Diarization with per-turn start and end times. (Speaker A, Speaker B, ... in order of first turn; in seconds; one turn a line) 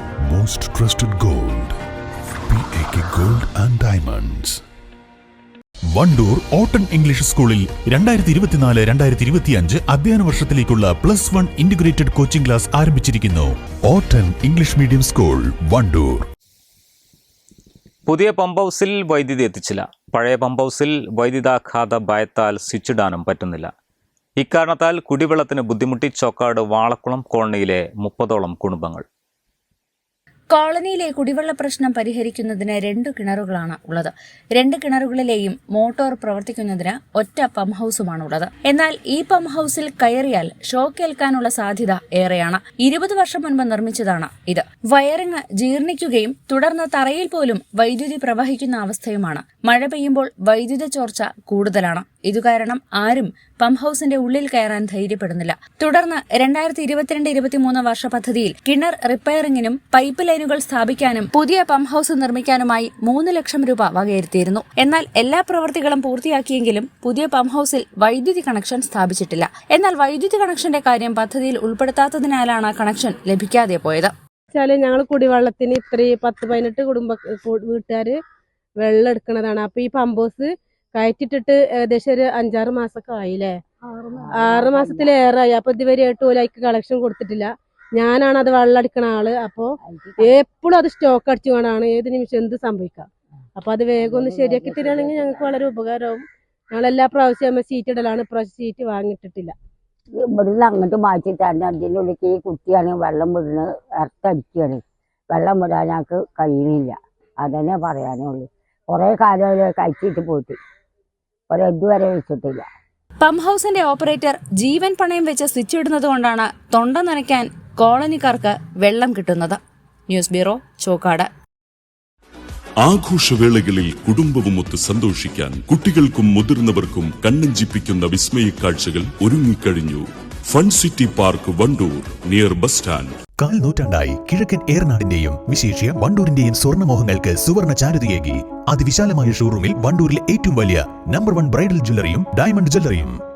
Speaker A: 0.3-1.8
Speaker A: 2.5-4.6
Speaker A: 6.0-16.3
Speaker B: 18.1-23.7
Speaker B: 24.4-29.1
Speaker C: 30.5-74.1
Speaker D: 74.5-78.2
Speaker D: 78.8-83.6
Speaker E: 84.2-85.1
Speaker D: 84.6-89.7
Speaker E: 89.8-90.3
Speaker D: 90.3-93.1
Speaker D: 93.6-99.5
Speaker E: 94.0-95.6
Speaker E: 100.2-104.8
Speaker E: 105.3-110.6
Speaker E: 111.5-112.7
Speaker C: 113.2-121.3
Speaker F: 122.8-133.1
Speaker A: 133.4-143.2